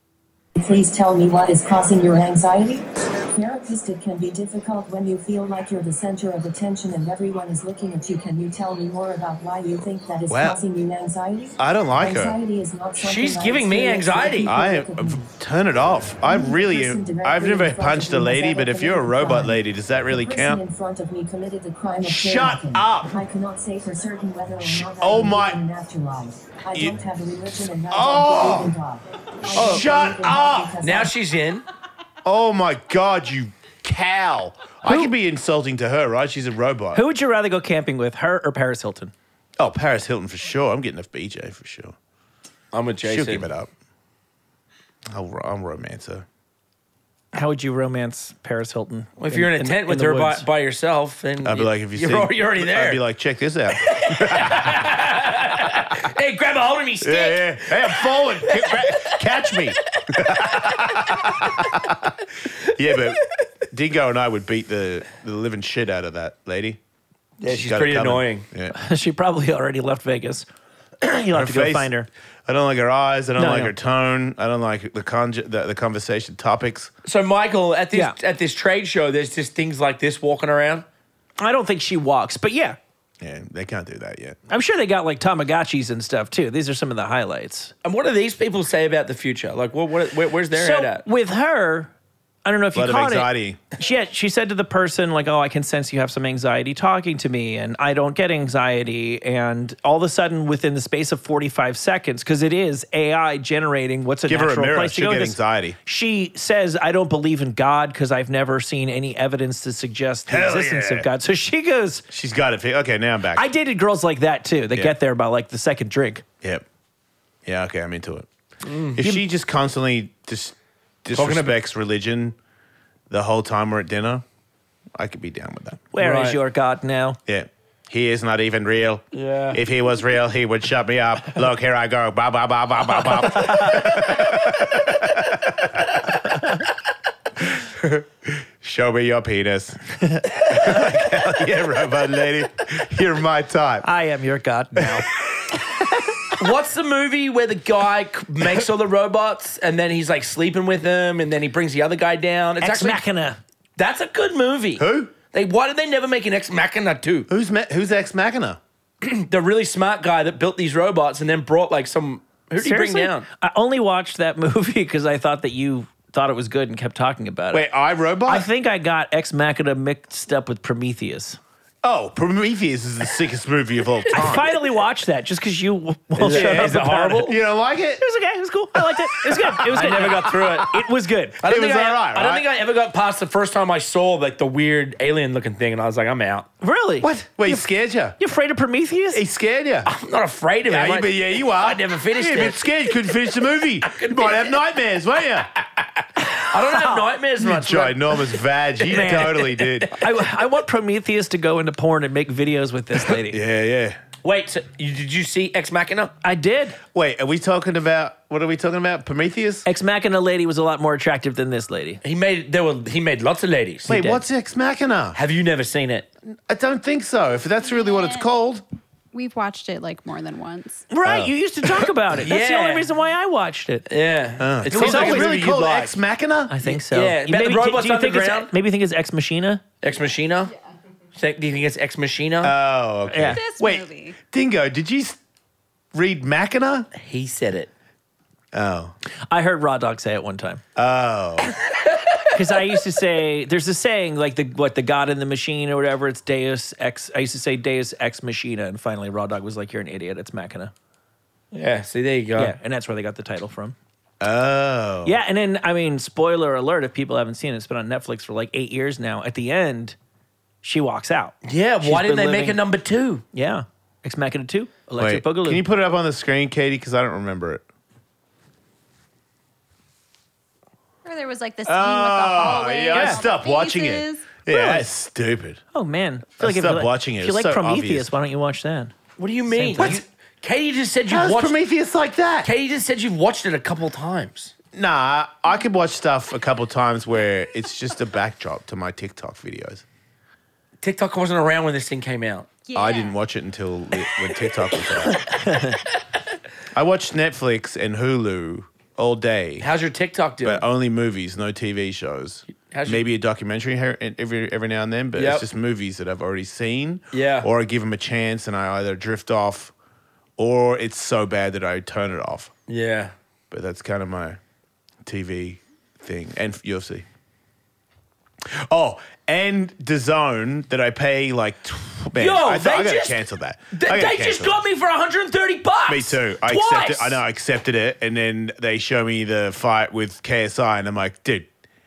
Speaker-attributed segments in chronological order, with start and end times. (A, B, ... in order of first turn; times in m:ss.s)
0:00.6-0:15.3 A
0:10.3-0:10.6 B
0:11.6-0:12.4 B
0:13.0-0:14.5 C
0:14.4-0:20.6 B
0:16.2-0:19.6 A
0:20.1-0:31.1 A
0:22.0-0:23.2 B
0:24.6-0:25.6 B
0:27.9-0:28.7 B
0:29.5-0:30.8 B
0:29.5-0:29.9 C
0:30.8-0:31.6 C
0:32.2-0:37.0 B
0:34.8-0:35.1 D
0:36.9-0:39.1 D
0:39.6-0:42.0 B
0:42.7-0:43.5 C
0:43.0-0:43.7 B
0:45.1-0:46.2 B
0:47.3-0:50.4 D
0:49.2-0:53.0 C
0:51.4-0:54.9 B
0:53.8-1:01.5 C
0:57.0-1:06.8 B
1:07.4-1:08.4 C
1:07.5-1:08.7 B
1:08.7-1:10.5 D
1:11.0-1:12.1 D
1:11.3-1:11.9 B
1:12.4-1:16.9 B
1:13.4-1:13.7 D
1:17.0-1:20.9 C
1:21.4-1:22.8 D
1:23.2-1:24.4 B
1:24.5-1:27.7 D
1:27.8-1:31.0 C
1:30.5-1:31.9 D
1:32.4-1:52.0 D
1:32.7-1:33.6 B
1:44.3-1:45.8 B
1:50.3-1:51.1 B
1:52.1-1:53.4 B
1:53.4-1:56.2 D
1:57.4-1:58.3 B
1:58.6-1:59.0 C
1:58.9-2:02.4 B
2:01.1-2:01.5 C
2:03.1-2:04.2 B
2:05.0-2:05.9 B
2:05.9-2:07.2 D
2:06.0-2:06.4 C
2:07.3-2:16.1 B
2:09.1-2:09.6 C
2:13.4-2:13.8 D
2:17.4-2:23.9 B
2:23.8-2:25.1 D
2:24.8-2:25.0 B
2:26.4-2:33.0 C
2:32.6-2:33.4 D
2:33.8-2:37.3 C
2:34.8-2:35.1 B
2:37.3-2:38.6 B
2:39.0-2:43.2 C
2:42.6-2:47.7 D
2:47.5-2:48.5 B
2:48.2-2:51.4 D
2:51.8-2:54.6 B
2:54.1-2:57.3 D
2:56.2-2:57.4 C
2:56.2-2:58.0 B
2:58.0-3:01.4 D
2:59.2-3:00.6 B
2:59.6-3:00.8 C
3:01.4-3:06.5 C
3:01.4-3:02.4 B
3:06.6-3:09.2 D
3:07.0-3:08.2 B
3:09.1-3:09.9 B
3:09.9-3:13.1 C
3:10.7-3:15.5 B
3:13.8-3:14.6 C
3:16.4-3:18.3 C
3:16.5-3:17.0 D
3:17.4-3:19.9 B
3:18.9-3:19.7 C
3:18.9-3:23.4 D
3:23.2-3:24.0 B
3:24.2-3:26.1 C
3:26.2-3:26.8 D
3:26.9-3:29.6 B
3:29.6-3:32.0 D
3:32.0-3:34.0 C
3:33.9-3:34.2 D
3:33.9-3:35.2 B
3:35.1-3:36.1 C
3:36.5-3:38.6 B
3:37.6-3:38.3 E
3:39.1-3:40.9 E
3:40.9-3:43.9 D
3:41.0-3:41.3 B
3:42.2-3:42.9 C
3:43.9-3:46.0 C
3:44.4-3:46.5 B
3:44.7-3:45.3 D
3:46.5-3:49.6 D
3:46.6-3:48.5 C
3:49.8-3:50.5 C
3:51.1-3:52.5 C
3:52.4-3:55.2 B
3:53.1-3:53.4 D
3:53.2-3:54.2 E
3:55.9-3:56.9 B
3:57.0-3:57.7 C
3:58.5-3:58.9 B
3:59.3-4:00.6 D
4:00.8-4:01.5 B
4:02.3-4:10.7 D
4:11.5-4:12.6 C
4:12.4-4:13.8 D
4:14.2-4:15.2 B
4:15.0-4:20.0 D
4:20.6-4:22.6 D
4:21.4-4:23.2 C
4:23.3-4:25.6 D
4:25.0-4:27.6 B
4:31.0-4:34.3 E
4:31.6-4:35.6 B
4:32.9-4:33.2 D
4:34.5-4:34.9 D
4:35.7-4:39.0 D
4:36.4-4:38.1 B
4:39.2-4:41.6 C
4:39.5-4:40.0 D
4:41.1-4:42.5 B
4:42.4-4:44.5 C
4:44.7-4:49.8 B
4:50.8-4:52.5 C
4:52.7-4:53.2 E
4:52.7-4:55.4 B
4:55.4-4:55.8 D
4:56.7-4:59.7 B
4:59.6-5:00.6 C
5:00.4-5:09.7 B
5:02.7-5:03.0 C
5:05.2-5:05.4 C
5:07.1-5:07.5 C
5:10.4-5:12.5 B
5:12.7-5:13.1 C
5:13.5-5:14.4 B
5:15.0-5:17.0 B
5:18.4-5:24.6 B
5:22.2-5:27.2 C
5:25.9-5:31.5 B